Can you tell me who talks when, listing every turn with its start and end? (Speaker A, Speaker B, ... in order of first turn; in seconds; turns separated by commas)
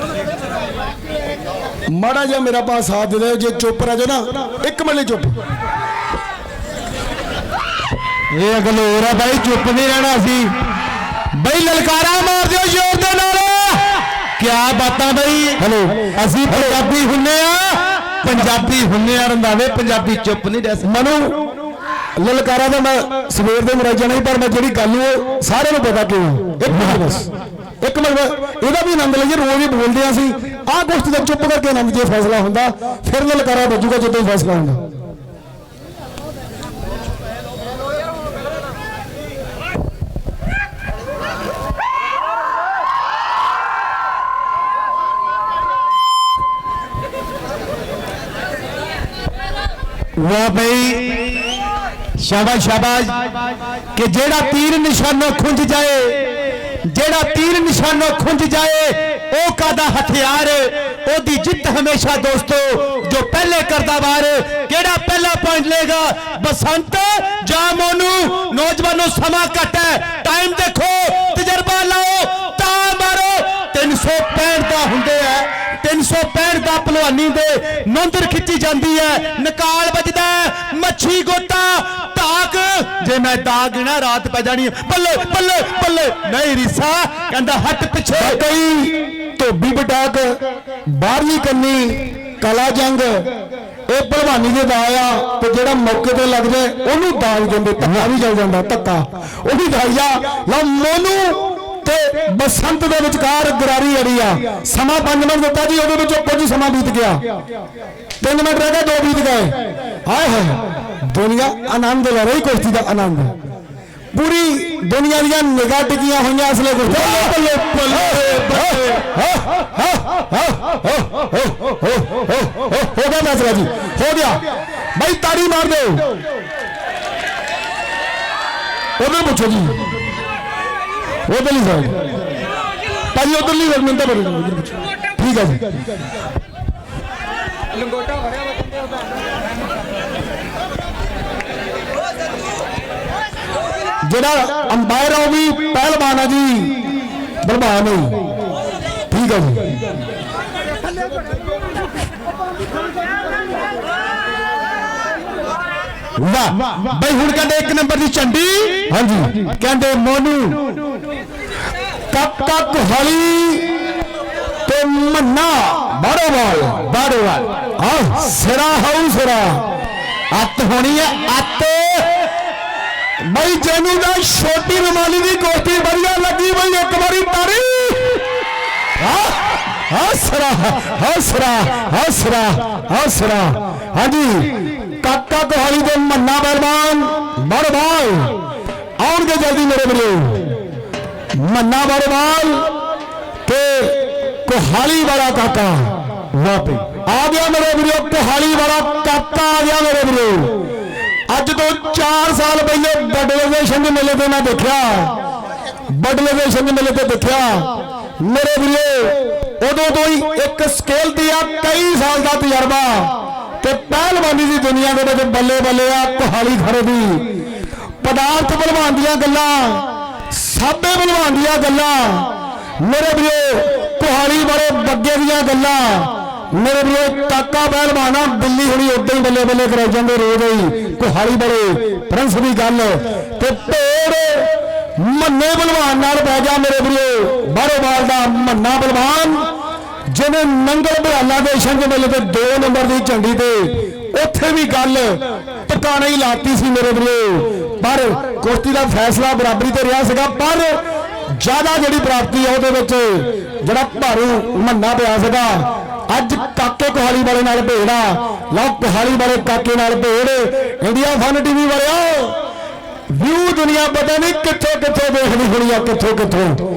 Speaker A: 1.9-5.3, Speaker B: 8.3-10.5, Speaker B: 11.3-20.9, Speaker A: 15.6-16.8, Speaker A: 20.8-21.5, Speaker A: 22.2-27.3, Speaker A: 27.8-34.8, Speaker B: 50.2-51.3, Speaker B: 52.2-53.2, Speaker B: 53.9-88.4, Speaker A: 88.1-93.3, Speaker A: 93.9-107.2, Speaker A: 108.2-109.5, Speaker A: 110.0-113.3, Speaker A: 114.1-117.3, Speaker B: 116.9-119.0, Speaker A: 117.9-124.4, Speaker A: 125.0-126.1, Speaker A: 129.0-129.8, Speaker A: 131.3-132.0, Speaker A: 133.1-135.7, Speaker A: 144.1-146.8, Speaker A: 147.4-148.2, Speaker A: 149.1-149.8, Speaker B: 156.2-158.8, Speaker A: 158.9-159.4, Speaker B: 159.6-160.7, Speaker A: 162.1-163.7, Speaker A: 164.7-166.7, Speaker B: 166.7-167.5, Speaker A: 167.8-169.7, Speaker B: 170.3-172.1, Speaker A: 173.2-178.2, Speaker A: 179.0-188.4, Speaker A: 189.0-190.6, Speaker A: 191.3-192.8, Speaker A: 193.5-200.6, Speaker A: 201.3-205.2, Speaker A: 205.9-217.3, Speaker A: 218.0-239.4, Speaker A: 240.1-250.8, Speaker A: 251.4-262.4, Speaker A: 263.1-266.6